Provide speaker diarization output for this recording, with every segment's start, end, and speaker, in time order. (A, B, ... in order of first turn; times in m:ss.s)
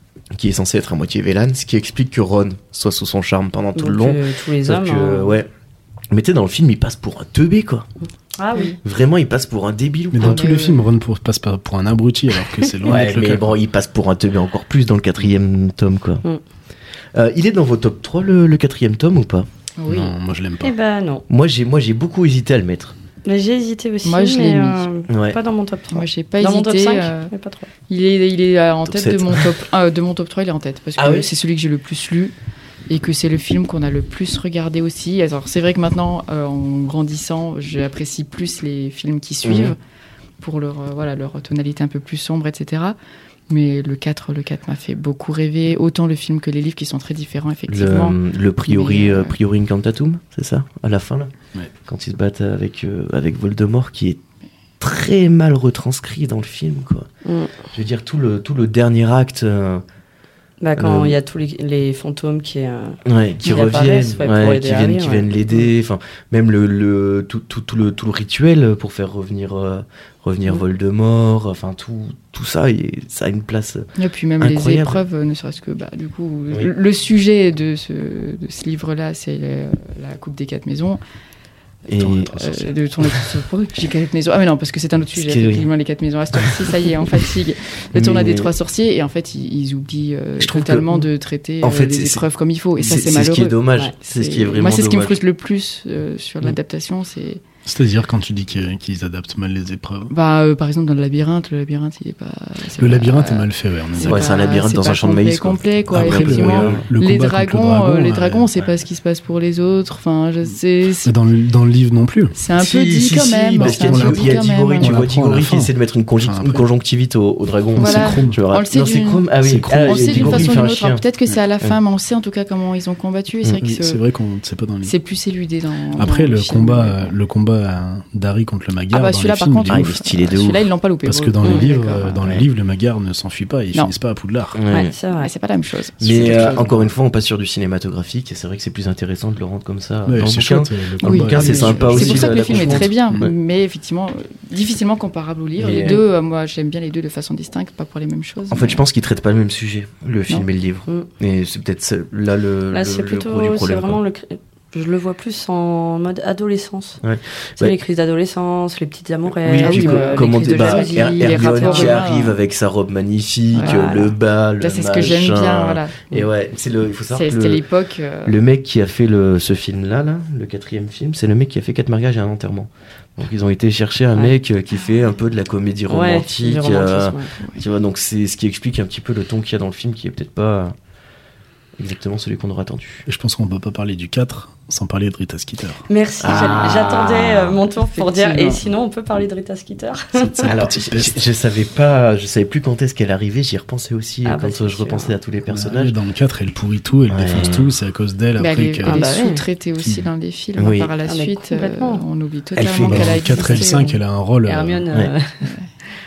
0:00.3-0:05.5 A
0:03.7-0:05.4 B
0:06.1-0:07.9 A
0:08.4-0:08.8 B
0:08.8-0:10.4 A
0:10.1-0:13.6 C
0:10.2-0:10.8 D
0:12.8-0:16.2 A
0:17.1-0:19.5 A
0:19.8-0:20.1 D
0:19.9-0:20.8 C
0:20.6-0:21.2 B
0:21.3-0:23.0 A
0:23.2-0:27.7 B
0:24.0-0:24.8 D
0:25.1-0:25.4 A
0:25.9-0:27.3 D
0:27.9-0:32.3 D
0:28.9-0:29.5 A
0:31.0-0:31.3 A
0:32.9-0:39.8 D
0:39.4-0:39.7 A
0:40.4-0:43.0 D
0:43.5-0:49.4 D
0:47.7-0:51.3 A
0:51.8-0:54.2 A
0:54.8-0:57.1 A
0:57.2-0:57.5 B
0:57.7-0:59.8 A
1:00.6-1:05.6 B
1:00.8-1:01.2 A
1:03.0-1:15.0 A
1:03.4-1:03.8 D
1:14.0-1:21.0 D
1:21.9-1:22.3 A
1:22.0-1:22.7 C
1:22.3-1:37.4 D
1:25.2-1:25.7 A
1:26.3-1:26.7 A
1:27.9-1:28.5 A
1:30.4-1:31.1 A
1:31.6-1:32.2 A
1:32.8-1:35.2 A
1:37.6-1:40.1 C
1:40.1-1:51.1 D
1:42.8-1:44.5 C
1:44.0-1:46.9 A
1:45.9-1:48.5 C
1:51.0-1:52.3 C
1:52.3-1:55.0 D
1:52.6-2:01.0 A
1:53.6-1:56.6 C
1:57.8-1:58.4 C
1:57.8-2:04.0 D
1:59.4-2:00.7 C
2:03.6-2:04.9 C
2:04.8-2:07.1 D
2:05.9-2:09.9 C
2:08.9-2:12.2 D
2:09.6-2:10.7 A
2:11.0-2:14.6 C
2:11.4-2:11.7 B
2:14.5-2:14.9 A
2:14.7-2:15.3 B
2:15.1-2:16.8 D
2:16.0-2:23.3 A
2:16.0-2:16.8 C
2:20.0-2:23.2 C
2:21.0-2:28.8 D
2:25.6-2:26.0 A
2:25.7-2:26.0 B
2:28.5-2:34.0 A
2:32.7-2:37.0 B
2:37.0-2:37.8 A
2:37.6-2:42.0 B
2:39.4-2:47.6 A
2:39.6-2:42.4 D
2:43.5-2:43.8 D
2:43.6-2:44.1 B
2:44.6-2:46.0 D
2:47.1-2:48.3 D
2:48.2-3:00.8 A
2:55.9-2:57.3 B
3:01.8-3:03.0 A
3:03.0-3:05.8 C
3:05.9-3:10.5 B
3:06.2-3:07.6 A
3:07.9-3:08.6 D
3:10.1-3:11.2 C
3:10.4-3:15.9 A
3:14.2-3:15.2 B
3:15.5-3:19.1 C
3:17.1-3:17.7 A
3:18.4-3:24.0 D
3:18.8-3:19.4 B
3:19.8-3:20.1 C
3:20.6-3:20.9 A
3:21.0-3:22.0 B
3:22.5-3:23.4 A
3:22.8-3:24.9 C
3:24.4-3:25.6 B